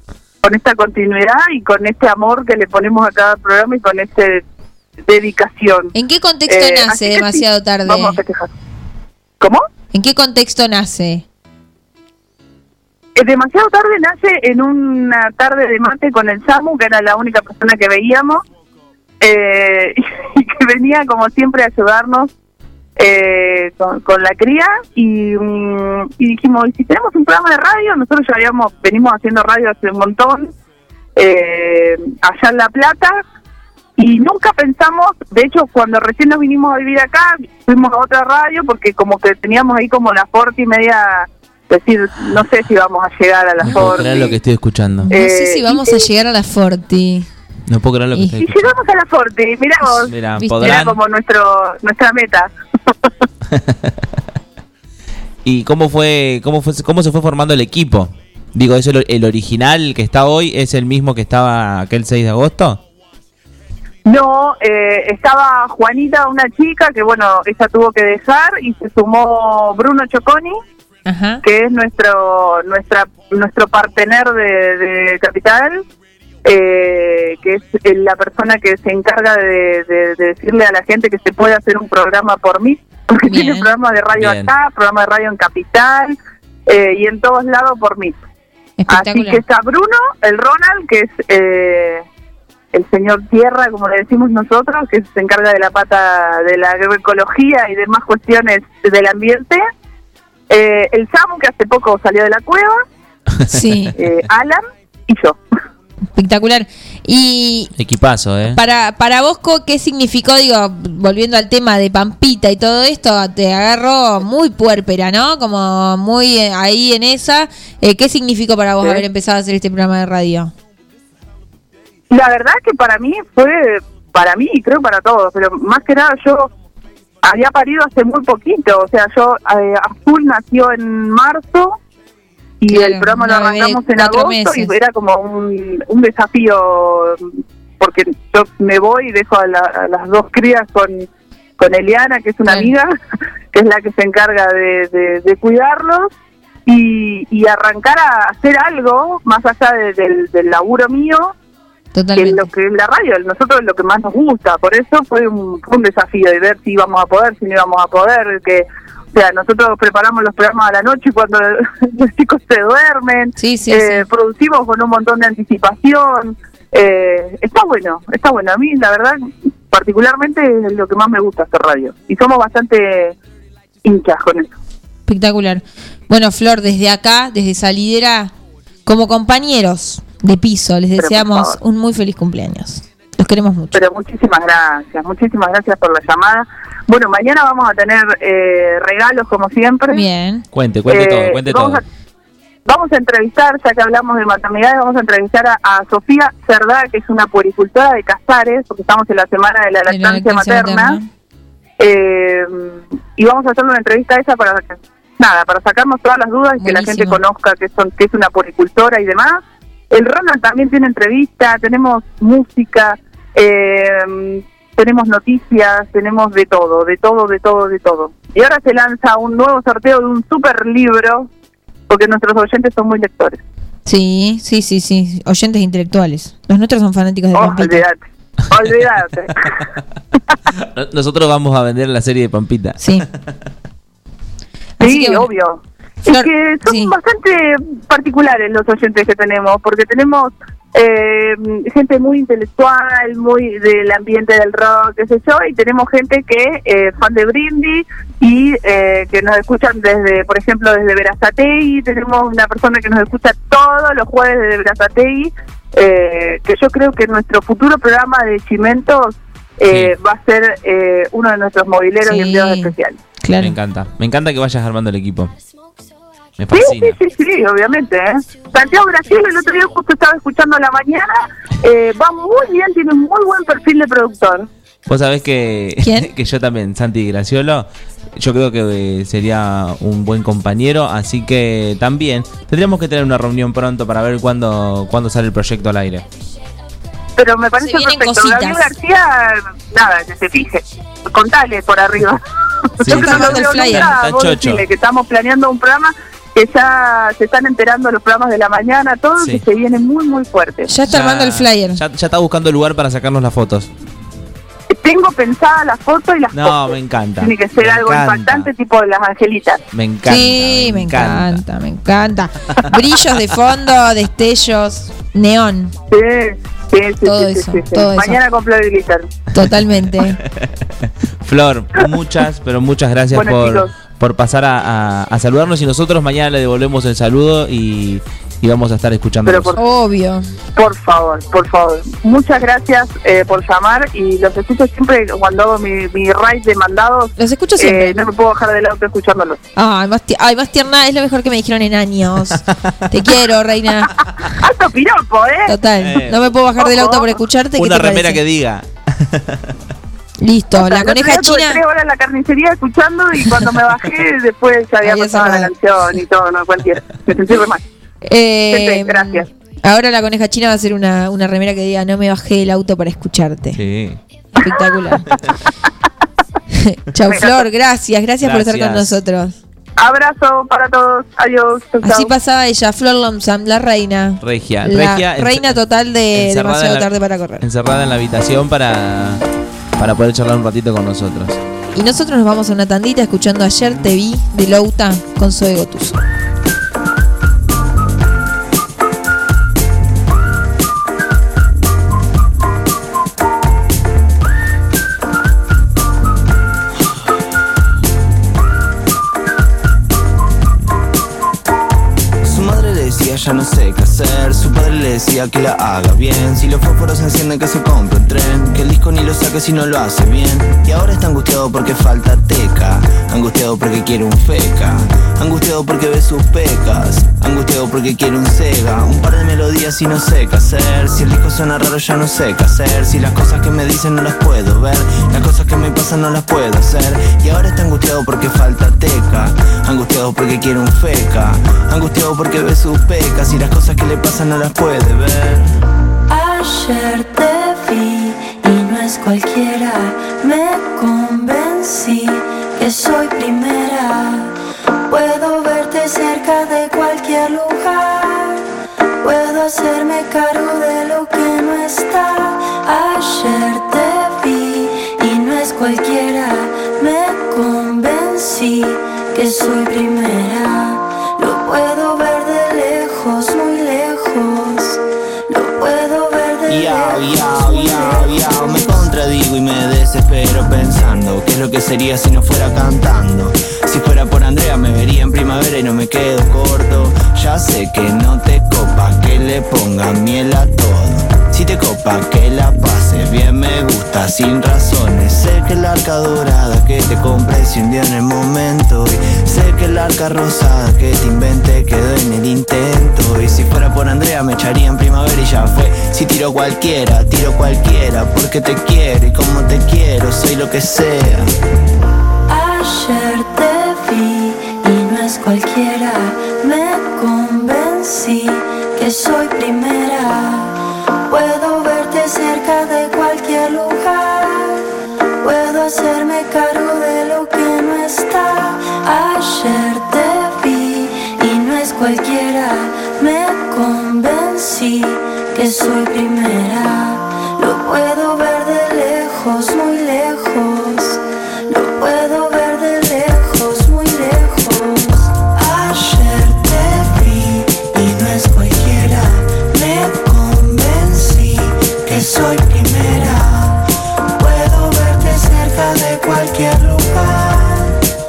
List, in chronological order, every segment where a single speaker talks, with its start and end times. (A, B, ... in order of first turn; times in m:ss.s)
0:00.4-0:04.4 A
0:05.1-0:05.9 A
0:05.9-0:08.2 B
0:06.5-0:08.5 A
0:09.9-0:11.2 B
0:13.2-0:18.4 A
0:19.2-0:22.3 A
0:23.0-0:30.5 A
0:31.2-0:33.2 A
0:34.0-0:44.4 A
0:43.6-0:45.1 C
0:43.6-0:44.0 B
0:45.1-0:47.3 B
0:45.1-0:46.0 A
0:47.7-0:48.8 C
0:48.4-0:52.5 A
0:50.0-0:50.8 B
0:50.0-0:51.0 C
0:53.5-0:54.0 C
0:55.4-1:02.8 C
1:04.0-1:10.6 A
1:11.0-1:11.4 B
1:11.4-1:15.8 A
1:16.4-1:28.2 A
1:23.3-1:23.7 B
1:24.1-1:24.5 C
1:28.8-1:29.4 B
1:28.9-1:32.0 A
1:32.7-1:39.6 A
1:40.5-1:42.8 A
1:43.3-1:44.0 C
1:43.5-1:43.9 B
1:44.0-1:45.4 A
1:46.1-1:47.7 B
1:47.8-1:48.6 C
1:48.5-2:00.5 B
2:02.1-2:06.5 A
2:07.2-2:11.8 A
2:12.6-2:17.2 A
2:12.7-2:14.7 B
2:17.8-2:21.0 A
2:21.6-2:22.9 A
2:22.5-2:22.7 B
2:23.5-2:26.1 A
2:26.6-2:31.3 A
2:31.9-2:32.5 B
2:32.2-2:49.2 A
2:43.4-2:44.0 B
2:49.7-2:53.2 A
2:53.8-2:54.5 A
2:55.1-2:58.3 B
2:58.9-3:03.8 B
3:01.0-3:01.5 A
3:03.7-3:10.1 A
3:09.9-3:10.4 B
3:10.5-3:11.8 C
3:10.9-3:11.8 A
3:12.6-3:21.0 A
3:19.9-3:21.1 B
3:21.8-3:41.3 A
3:26.6-3:27.2 B
3:41.9-3:43.4 A
3:43.9-3:47.8 B
3:47.3-3:49.5 A
3:50.7-3:52.8 C
3:52.8-3:53.0 B
3:54.8-3:55.3 B
3:54.8-4:23.0 A
3:56.1-3:56.9 B
4:19.7-4:19.9 C
4:22.0-4:23.6 B
4:23.4-4:25.3 C
4:26.4-4:27.0 C
4:26.5-4:34.5 A
4:34.9-4:46.0 C
4:35.8-4:36.1 B
4:47.2-4:52.2 A
4:47.6-4:48.7 B
4:52.8-4:54.6 C
4:52.8-5:00.7 A
4:52.9-4:53.9 B
4:59.2-4:59.4 C
5:00.7-5:01.8 B
5:00.9-5:03.7 C
5:04.7-5:09.6 A
5:06.3-5:08.5 C
5:09.7-5:11.4 C
5:10.0-5:15.7 B
5:15.9-5:19.1 A
5:17.0-5:18.2 B
5:19.3-5:20.2 B
5:19.4-5:20.5 C
5:21.2-5:29.6 C
5:23.1-5:23.7 A
5:29.3-5:29.6 A
5:29.6-5:30.3 B
5:30.6-5:39.4 A
5:37.2-5:38.0 B
5:39.6-5:43.9 B
5:44.4-5:45.6 A
5:45.5-5:48.2 B
5:45.8-5:46.2 C
5:46.6-5:47.1 A
5:47.6-5:49.5 C
5:50.2-5:51.6 B
5:50.5-5:57.6 A
5:54.8-5:55.5 B
5:58.0-6:03.6 B
5:58.5-5:59.3 A
6:03.6-6:04.0 C
6:04.4-6:05.0 B
6:06.6-6:09.4 B
6:07.0-6:07.4 A
6:08.2-6:09.0 C
6:09.8-6:12.1 A
6:11.8-6:17.4 B
6:14.2-6:15.6 C
6:16.1-6:16.9 C
6:17.4-6:19.2 C
6:19.8-6:21.4 C
6:21.7-6:26.0 B
6:42.2-7:15.5 D
7:16.1-7:24.3 E
7:24.9-7:28.4 E
7:29.0-7:48.8 E
7:46.5-8:21.3 D
8:22.3-8:30.6 E
8:31.1-8:34.6 E
8:35.2-9:03.6 E
9:04.2-9:07.7 E